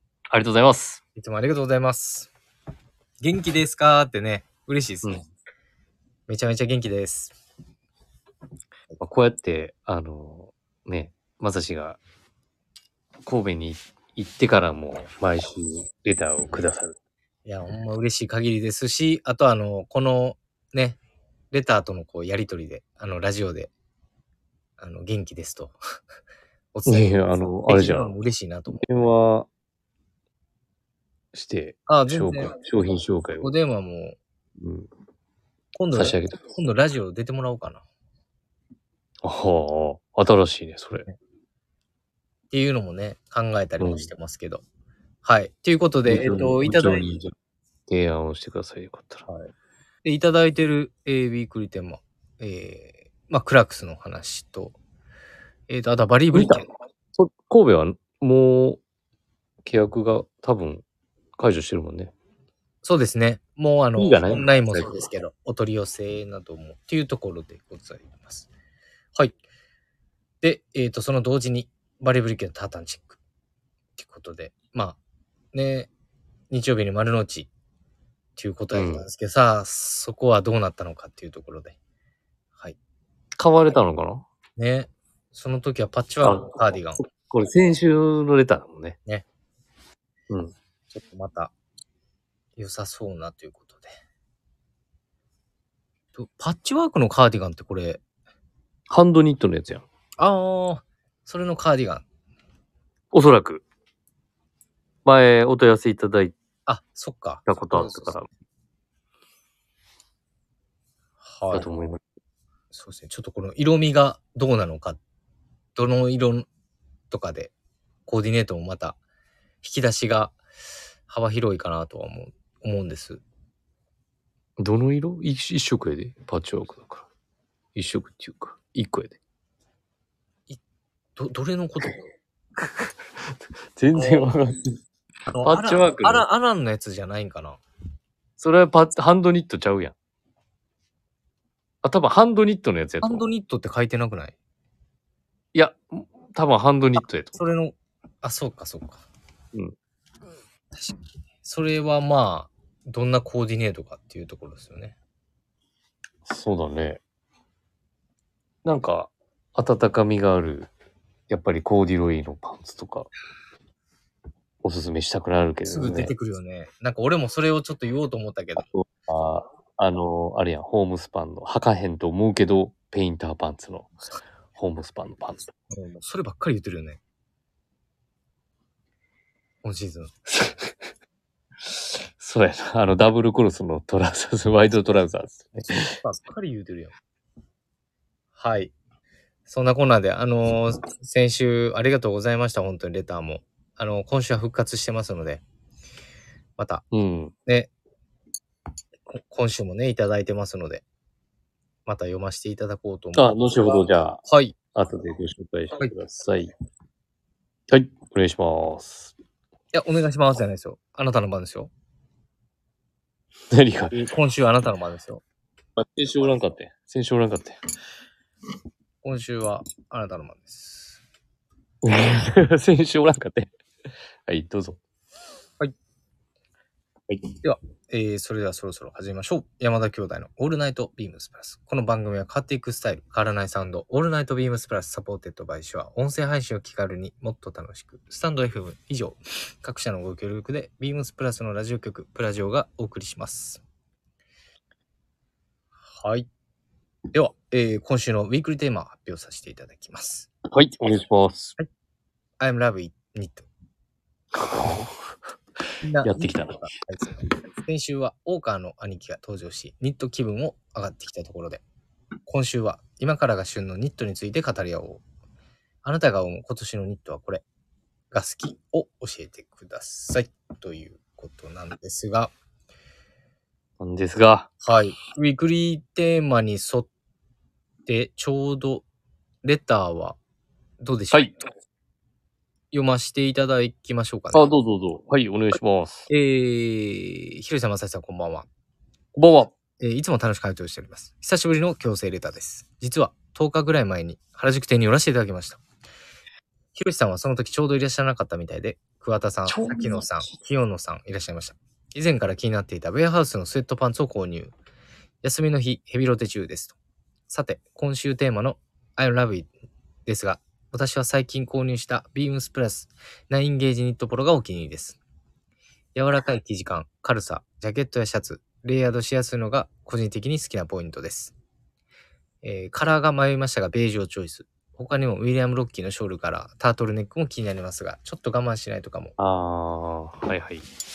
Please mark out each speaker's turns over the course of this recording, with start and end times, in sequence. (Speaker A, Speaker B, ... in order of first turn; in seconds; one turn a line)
Speaker A: 0.3-1.0
Speaker B: 1.2-2.3
Speaker B: 3.2-5.2
Speaker B: 6.3-7.4
Speaker A: 9.0-12.0
Speaker A: 13.3-16.9
Speaker B: 17.4-21.0
Speaker B: 21.5-23.7
Speaker B: 24.8-25.8
Speaker B: 26.7-28.9
Speaker A: 26.9-28.2
Speaker A: 28.8-29.5
Speaker A: 31.3-33.5
Speaker B: 31.9-32.5
Speaker B: 33.4-34.2
Speaker A: 34.6-34.9
Speaker B: 35.8-37.8
Speaker A: 35.9-36.4
Speaker A: 39.2-41.1
Speaker B: 42.5-44.6
Speaker A: 43.8-44.1
Speaker B: 45.2-47.1
Speaker A: 46.1-47.3
Speaker A: 47.9-49.3
Speaker B: 50.0-54.8
Speaker B: 55.7-56.7
Speaker A: 56.3-58.8
Speaker A: 59.6-60.8
Speaker A: 61.4-62.1
Speaker B: 62.8-68.5
Speaker A: 64.0-65.1
Speaker B: 70.4-73.2
Speaker B: 74.0-75.0
Speaker B: 75.5-75.9
Speaker B: 76.5-77.5
Speaker B: 78.4-81.8
Speaker A: 78.7-79.0
Speaker A: 83.4-84.3
Speaker B: 84.6-87.0
Speaker A: 86.2-89.0
Speaker B: 90.9-91.5
Speaker B: 92.6-93.9
Speaker B: 96.2-98.0
Speaker A: 98.9-99.8
Speaker B: 100.2-102.0
Speaker A: 103.1-103.6
Speaker A: 105.0-106.3
Speaker B: 106.7-108.1
Speaker A: 107.5-108.3
Speaker B: 111.2-111.7
Speaker A: 111.5-112.0
Speaker B: 112.7-115.0
Speaker B: 115.8-116.5
Speaker B: 117.1-117.5
Speaker B: 118.1-119.0
Speaker B: 119.6-120.4
Speaker B: 121.1-123.2
Speaker A: 124.6-127.1
Speaker A: 127.8-129.2
Speaker B: 131.2-132.0
Speaker A: 132.6-134.6
Speaker B: 133.9-134.3
Speaker B: 135.3-137.6
Speaker A: 135.4-136.3
Speaker A: 138.4-139.9
Speaker A: 141.8-143.2
Speaker B: 143.0-144.4
Speaker A: 145.5-147.4
Speaker B: 147.3-149.1
Speaker B: 150.7-155.0
Speaker A: 156.3-157.0
Speaker A: 158.7-160.7
Speaker A: 161.3-163.1
Speaker A: 164.6-166.1
Speaker B: 165.7-168.7
Speaker A: 168.6-173.9
Speaker A: 174.6-175.5
Speaker B: 175.7-177.0
Speaker B: 179.6-180.1
Speaker A: 180.4-180.7
Speaker A: 181.7-186.0
Speaker B: 185.9-186.9
Speaker B: 188.4-188.7
Speaker B: 189.5-195.4
Speaker B: 196.6-196.8
Speaker A: 196.9-197.3
Speaker B: 197.5-197.7
Speaker B: 199.1-200.8
Speaker B: 201.9-203.3
Speaker A: 203.2-204.2
Speaker B: 204.2-204.6
Speaker A: 204.7-206.5
Speaker A: 207.7-209.1
Speaker B: 209.7-211.7
Speaker A: 213.5-214.0
Speaker B: 213.9-215.2
Speaker A: 215.8-217.6
Speaker B: 219.0-221.0
Speaker A: 221.8-223.5
Speaker A: 224.3-224.8
Speaker B: 227.4-243.6
Speaker B: 245.9-246.3
Speaker B: 247.1-250.3
Speaker A: 250.5-251.5
Speaker B: 252.4-253.5
Speaker A: 254.3-254.9
Speaker B: 255.8-261.6
Speaker A: 256.0-256.6
Speaker B: 262.3-265.0
Speaker B: 265.8-267.4
Speaker B: 268.1-272.3
Speaker A: 273.8-274.5
Speaker B: 274.6-276.9
Speaker B: 277.9-278.9
Speaker B: 279.4-280.2
Speaker B: 280.8-281.3
Speaker B: 282.7-284.4
Speaker A: 284.3-286.1
Speaker B: 286.1-288.5
Speaker A: 289.1-289.5
Speaker B: 289.8-295.6
Speaker B: 296.8-304.5
Speaker A: 299.5-300.1
Speaker B: 305.2-306.8
Speaker B: 307.3-309.5
Speaker B: 310.1-315.0
Speaker B: 315.9-321.4
Speaker B: 322.4-329.1
Speaker A: 329.2-330.7